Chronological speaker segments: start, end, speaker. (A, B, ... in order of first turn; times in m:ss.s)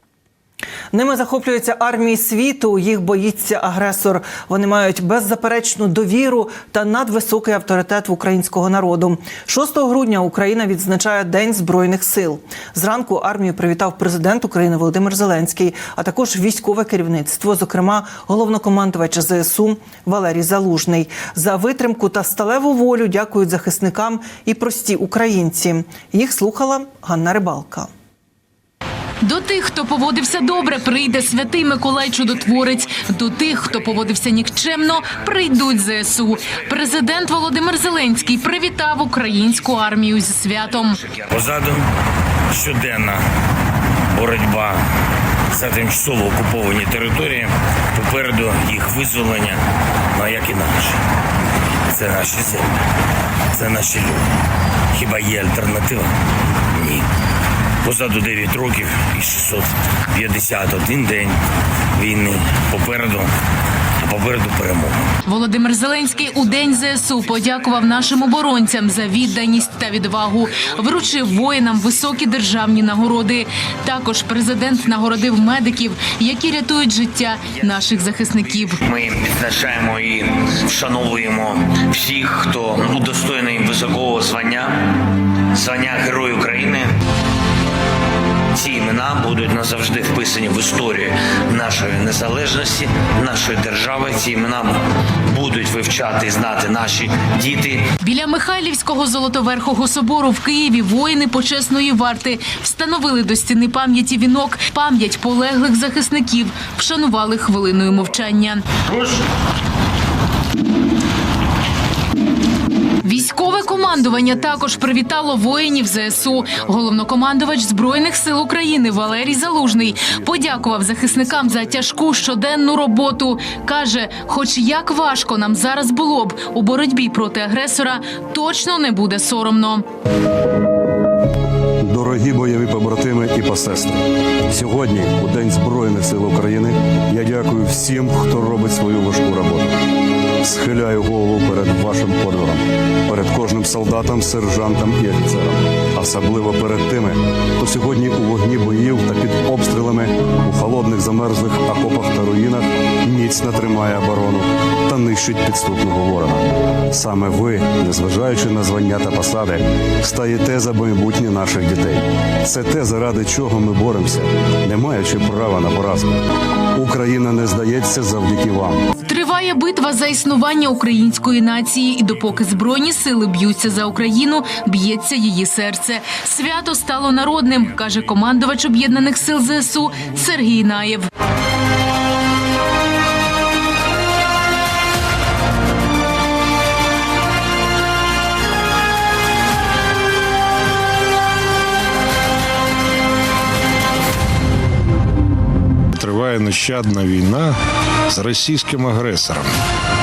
0:00.9-0:27.9 A
0:29.2-0:41.0 B
0:41.1-0:41.8 C
0:42.5-0:43.2 C
0:44.1-0:44.8 C
0:45.5-0:49.6 C
0:50.1-0:51.0 C
0:51.9-0:52.7 C
0:53.5-0:54.3 C
0:54.9-0:56.1 C
0:56.7-0:57.0 C
0:57.8-1:01.4 C
1:01.9-1:03.3 C
1:04.0-1:05.0 C
1:05.3-1:18.8 B
1:18.8-1:24.8 C
1:25.5-1:26.9 C
1:28.5-1:37.8 C
1:38.0-1:48.6 B
1:53.0-2:09.8 B
1:53.1-1:56.6 D
1:59.4-2:00.5 D
2:11.8-2:19.8 D
2:20.4-2:46.1 D
2:46.7-2:48.9 D
2:49.0-3:01.1 B
3:15.9-3:17.6 E
3:18.1-3:19.5 E